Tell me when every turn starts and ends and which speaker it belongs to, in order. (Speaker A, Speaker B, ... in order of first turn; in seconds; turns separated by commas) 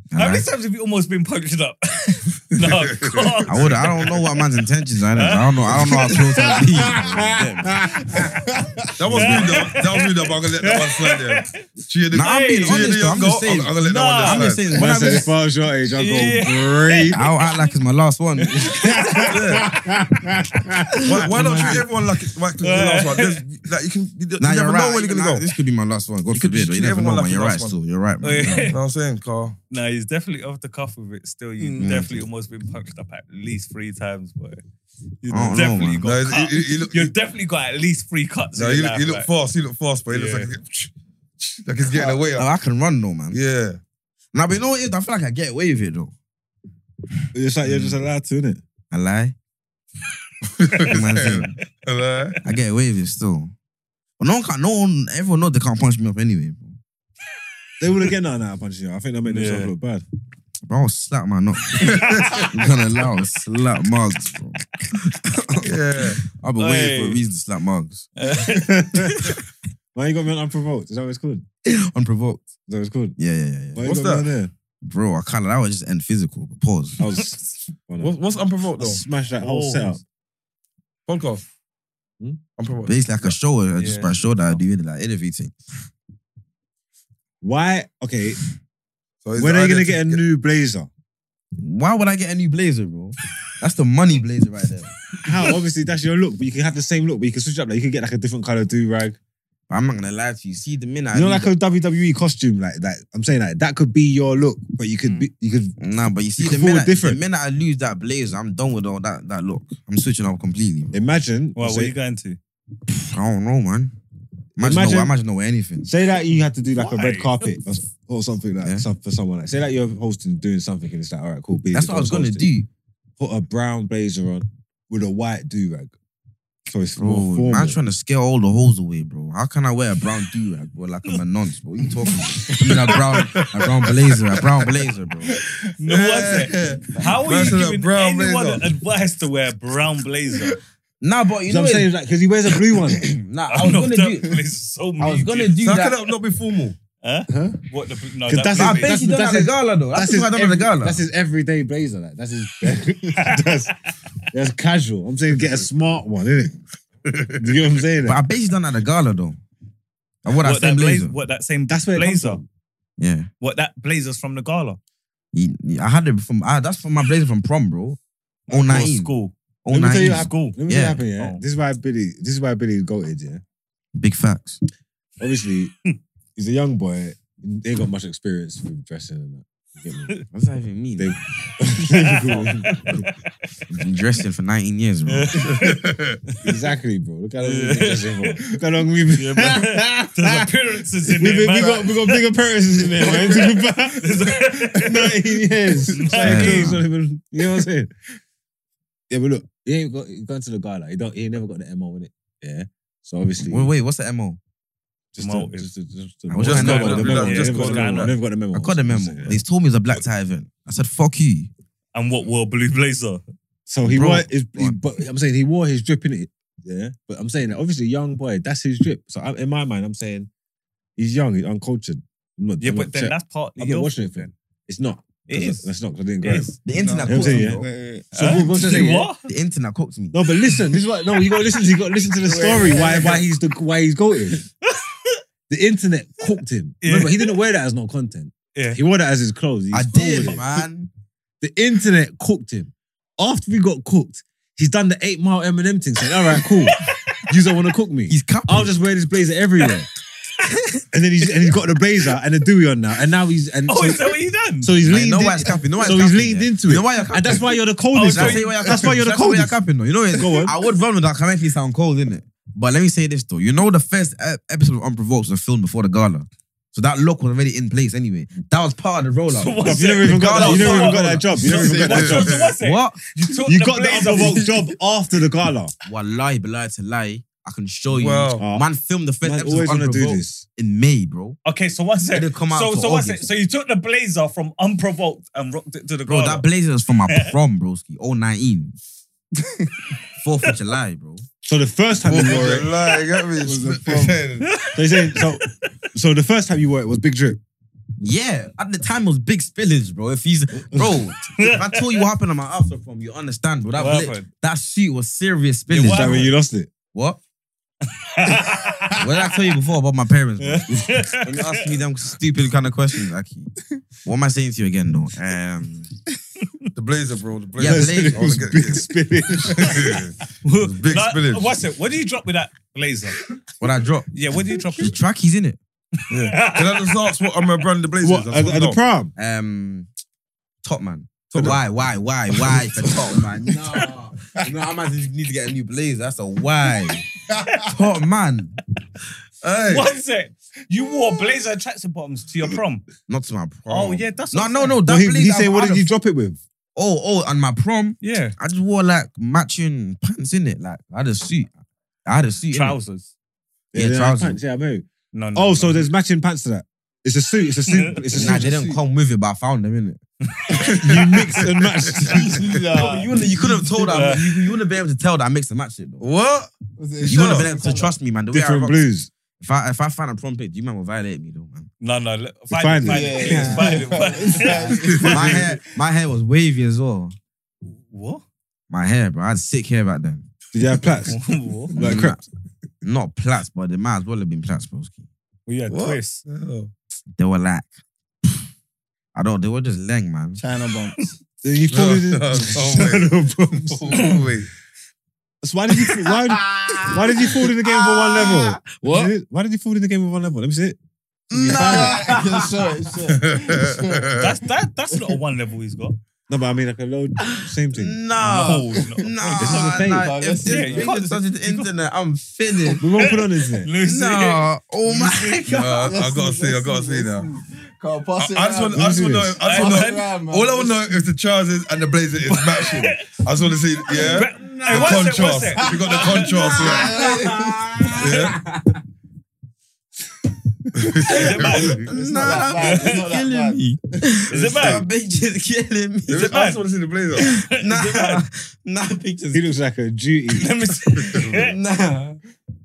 Speaker A: 0.1-0.5, Speaker B: 0.1-4.4, Speaker C: 2.5-3.9, Speaker A: 3.5-8.2, Speaker B: 5.1-6.3, Speaker D: 6.6-8.3, Speaker E: 8.3-8.8, Speaker C: 9.0-14.7, Speaker B: 9.1-11.6, Speaker D: 9.1-9.4, Speaker A: 12.1-15.3, Speaker B: 12.2-12.9, Speaker B: 13.8-14.6, Speaker D: 14.7-17.2, Speaker B: 15.9-17.5, Speaker A: 17.1-19.6, Speaker B: 18.4-20.4, Speaker D: 18.5-21.8, Speaker C: 19.3-19.6, Speaker C: 21.0-25.5, Speaker B: 21.3-21.8, Speaker B: 22.6-23.4, Speaker A: 24.4-28.7, Speaker C: 26.3-27.8, Speaker B: 28.2-28.8, Speaker C: 28.6-29.6, Speaker B: 29.7-34.6, Speaker E: 31.6-31.9, Speaker A: 31.8-32.2, Speaker B: 35.2-39.3, Speaker A: 35.3-36.0, Speaker C: 36.0-37.1, Speaker C: 38.5-42.5, Speaker B: 40.1-40.5, Speaker A: 42.3-43.4, Speaker C: 43.3-43.8, Speaker A: 44.3-46.1, Speaker D: 47.3-48.6, Speaker A: 48.9-49.4, Speaker C: 50.5-52.4, Speaker A: 50.8-51.6, Speaker A: 52.4-53.5, Speaker A: 54.2-56.8, Speaker D: 57.8-60.0, Speaker B: 59.2-59.7, Speaker A: 60.7-68.1, Speaker C: 61.8-62.5, Speaker C: 65.6-66.2, Speaker B: 66.6-67.2, Speaker B: 68.2-69.4, Speaker D: 68.4-69.3, Speaker D: 69.9-71.4, Speaker A: 71.7-72.5, Speaker D: 72.7-73.2, Speaker A: 73.2-73.9, Speaker D: 73.8-74.5, Speaker C: 73.8-74.3, Speaker A: 74.8-77.0, Speaker D: 77.0-78.1, Speaker C: 78.0-79.0, Speaker D: 78.8-80.0, Speaker B: 79.4-80.0, Speaker C: 81.0-81.4, Speaker C: 82.6-83.3, Speaker A: 82.8-85.5, Speaker B: 83.8-84.6, Speaker D: 87.4-88.4, Speaker C: 89.2-90.2, Speaker D: 89.4-90.9, Speaker A: 91.6-94.9, Speaker D: 95.2-99.2, Speaker A: 99.7-101.5, Speaker D: 101.1-105.8, Speaker A: 105.8-111.0, Speaker D: 106.4-107.2, Speaker D: 110.9-111.9, Speaker B: 111.5-112.4, Speaker A: 113.1-113.9, Speaker A: 114.6-115.9, Speaker D: 114.6-115.1, Speaker D: 115.8-122.5, Speaker B: 116.8-117.5, Speaker A: 121.7-122.7, Speaker D: 123.2-125.9, Speaker D: 126.7-127.8, Speaker A: 127.0-135.4, Speaker C: 132.5-134.0, Speaker B: 135.8-140.6, Speaker C: 135.8-138.6, Speaker A: 141.0-141.9, Speaker D: 141.5-143.1, Speaker A: 142.9-144.4, Speaker B: 143.5-145.7, Speaker A: 145.0-146.0, Speaker C: 145.6-146.8, Speaker B: 147.0-149.0, Speaker D: 147.3-147.6, Speaker D: 148.3-153.7, Speaker A: 148.5-151.0, Speaker B: 153.1-153.7, Speaker D: 154.3-156.5, Speaker C: 157.1-157.4, Speaker D: 157.4-158.2, Speaker A: 158.0-159.4, Speaker A: 160.2-161.1, Speaker B: 160.4-162.4, Speaker D: 161.7-162.4, Speaker A: 163.0-163.3, Speaker B: 163.4-164.8, Speaker A: 165.3-171.0, Speaker B: 168.5-169.3, Speaker D: 169.7-173.4, Speaker B: 170.0-170.6, Speaker B: 171.2-171.4, Speaker A: 173.9-174.6, Speaker D: 175.2-175.7, Speaker D: 176.3-180.2, Speaker A: 180.3-181.2, Speaker D: 181.0-183.1, Speaker B: 181.9-183.1, Speaker A: 183.7-185.4, Speaker B: 185.1-186.5, Speaker C: 185.4-186.2, Speaker D: 186.4-190.5, Speaker B: 187.4-188.6, Speaker B: 189.1-192.2, Speaker D: 191.0-197.9, Speaker B: 193.0-195.2, Speaker E: 193.2-193.5, Speaker B: 195.9-196.8, Speaker A: 196.2-196.8, Speaker D: 199.1-203.7, Speaker A: 203.4-204.4, Speaker D: 205.1-209.4, Speaker B: 205.2-205.7, Speaker A: 206.3-207.2, Speaker C: 206.4-208.1, Speaker B: 206.4-208.1, Speaker A: 208.5-211.5, Speaker B: 211.9-213.2, Speaker D: 213.7-220.3, Speaker A: 213.8-214.8, Speaker D: 221.0-226.5, Speaker B: 222.6-224.3, Speaker B: 225.3-225.7, Speaker B: 226.2-226.5, Speaker A: 226.6-227.7, Speaker E: 226.7-228.7, Speaker D: 227.1-229.1, Speaker B: 228.1-229.3, Speaker A: 229.2-230.2, Speaker D: 230.1-234.4, Speaker B: 230.5-231.6, Speaker E: 232.2-233.2, Speaker B: 234.6-235.2, Speaker D: 235.5-240.4, Speaker B: 236.8-237.3, Speaker B: 238.5-238.8, Speaker A: 239.7-240.9, Speaker D: 241.4-249.9, Speaker B: 246.4-247.3, Speaker A: 248.1-248.8, Speaker B: 250.4-250.8, Speaker D: 250.9-260.5, Speaker B: 253.7-254.7, Speaker A: 254.8-271.2, Speaker B: 257.9-258.8, Speaker B: 269.3-274.6, Speaker D: 269.6-272.4, Speaker E: 271.4-272.1, Speaker C: 271.9-272.5, Speaker A: 272.6-273.0, Speaker D: 273.4-275.7, Speaker A: 275.8-281.4, Speaker C: 277.9-278.4, Speaker D: 278.4-278.6, Speaker D: 279.2-280.4, Speaker B: 281.4-286.4, Speaker A: 282.1-283.2, Speaker A: 286.1-288.7, Speaker B: 287.1-287.3, Speaker A: 290.2-291.2, Speaker D: 291.4-292.7, Speaker C: 292.0-294.5, Speaker E: 293.4-294.2, Speaker B: 294.4-295.7, Speaker D: 294.7-297.4, Speaker A: 298.0-306.3, Speaker D: 300.7-301.0, Speaker B: 301.4-302.0, Speaker B: 303.7-304.3, Speaker B: 305.7-306.3, Speaker D: 305.8-306.7, Speaker A: 306.9-307.2, Speaker B: 308.0-309.0, Speaker A: 308.9-313.5, Speaker B: 310.4-311.6, Speaker A: 314.0-315.9, Speaker C: 316.7-318.9, Speaker A: 317.6-318.4, Speaker D: 317.6-320.0, Speaker C: 319.4-321.5, Speaker B: 320.4-323.2, Speaker A: 323.6-324.1, Speaker B: 324.1-324.9, Speaker A: 324.8-325.6, Speaker B: 326.0-327.2, Speaker C: 326.1-328.8, Speaker D: 328.0-329.1, Speaker A: 329.1-329.9, Speaker A: 330.6-337.0, Speaker E: 337.3-337.6, Speaker A: 337.6-338.6, Speaker C: 339.4-339.9, Speaker B: 339.6-342.9, Speaker A: 343.1-345.9, Speaker B: 343.7-344.8, Speaker D: 344.8-346.4, Speaker A: 346.7-351.5, Speaker B: 348.0-348.4, Speaker A: 352.0-352.8, Speaker B: 352.5-353.1, Speaker D: 353.7-358.6, Speaker A: 353.7-354.4, Speaker B: 355.1-355.9, Speaker B: 357.7-358.0, Speaker E: 358.1-358.8, Speaker A: 358.1-360.0, Speaker B: 360.3-360.8, Speaker C: 360.6-362.0, Speaker D: 360.6-362.5, Speaker E: 362.0-363.5, Speaker A: 362.7-366.0, Speaker B: 363.9-364.6, Speaker C: 366.0-367.5, Speaker E: 366.8-367.9, Speaker A: 367.0-368.8, Speaker D: 368.3-369.1, Speaker A: 369.4-371.7, Speaker B: 371.8-375.4, Speaker D: 372.5-373.8, Speaker E: 372.8-375.6, Speaker C: 374.8-375.3, Speaker A: 375.0-377.1, Speaker D: 375.1-375.4, Speaker B: 377.9-378.2, Speaker A: 378.7-380.2, Speaker D: 380.5-381.2, Speaker B: 381.1-381.7, Speaker D: 381.7-382.2, Speaker A: 381.7-382.2, Speaker A: 382.8-385.1, Speaker B: 385.5-386.2, Speaker C: 385.7-386.7, Speaker A: 387.2-387.7, Speaker A: 389.1-390.4, Speaker E: 390.4-391.1, Speaker D: 391.4-394.0, Speaker C: 391.7-394.5, Speaker D: 395.4-400.8, Speaker A: 397.9-399.1, Speaker A: 401.3-402.4, Speaker D: 401.3-402.2, Speaker E: 401.5-404.1, Speaker C: 403.1-404.3, Speaker B: 404.2-406.0, Speaker D: 406.3-408.0, Speaker A: 407.7-412.8, Speaker B: 408.2-409.5, Speaker E: 408.8-410.9, Speaker D: 409.4-410.1, Speaker B: 410.4-411.7, Speaker D: 412.8-413.7, Speaker B: 413.0-415.4, Speaker A: 413.8-415.9, Speaker C: 415.4-417.3, Speaker E: 415.6-420.9, Speaker C: 418.2-427.0, Speaker D: 418.7-419.4, Speaker B: 419.4-420.1, Speaker B: 422.3-423.1, Speaker B: 423.9-426.7, Speaker A: 424.1-425.2, Speaker E: 425.6-428.0, Speaker A: 426.6-428.8, Speaker C: 428.0-428.4, Speaker C: 430.8-431.7, Speaker A: 431.0-436.4, Speaker B: 431.1-431.9, Speaker E: 431.1-433.6, Speaker B: 432.6-433.1, Speaker B: 434.3-434.9, Speaker C: 434.3-434.7, Speaker C: 436.1-437.3, Speaker B: 436.2-436.6, Speaker B: 437.2-438.2, Speaker A: 437.2-439.5, Speaker D: 439.3-440.5, Speaker B: 440.3-441.6, Speaker A: 441.2-442.2